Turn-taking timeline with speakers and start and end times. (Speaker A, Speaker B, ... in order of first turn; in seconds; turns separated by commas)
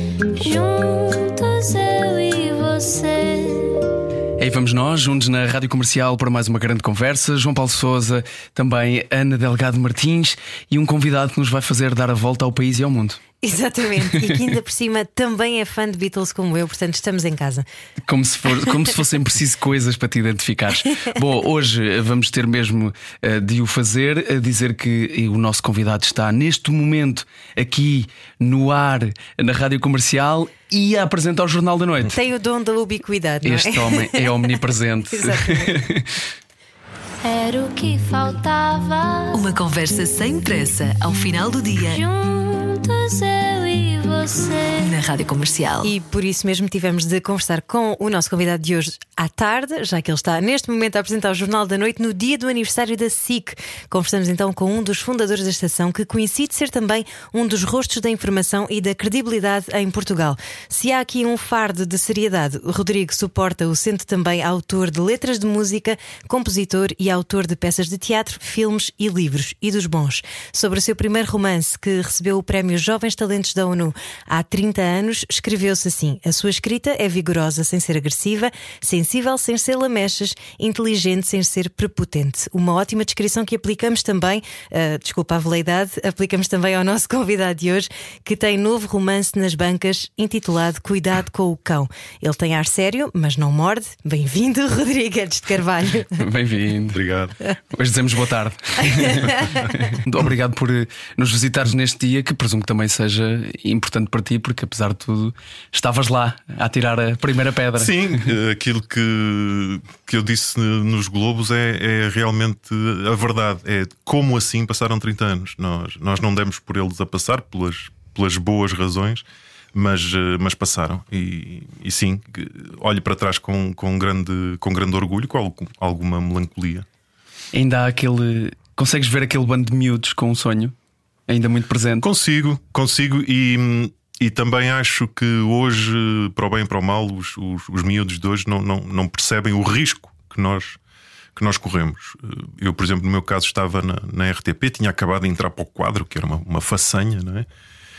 Speaker A: 0.3-3.9, Speaker B: 4.4-13.2, Speaker C: 13.4-17.6, Speaker B: 18.1-32.2, Speaker C: 32.0-34.4, Speaker B: 33.4-36.2, Speaker C: 35.1-35.8, Speaker A: 37.2-39.5, Speaker D: 39.3-42.0, Speaker A: 41.8-45.0, Speaker D: 44.8-45.9, Speaker C: 45.8-96.2, Speaker B: 96.2-97.0, Speaker E: 96.9-97.3, Speaker B: 97.7-108.2, Speaker C: 98.8-99.7, Speaker E: 107.8-126.8, Speaker B: 127.5-130.7, Speaker B: 131.3-132.1, Speaker E: 132.0-140.8, Speaker E: 141.3-147.5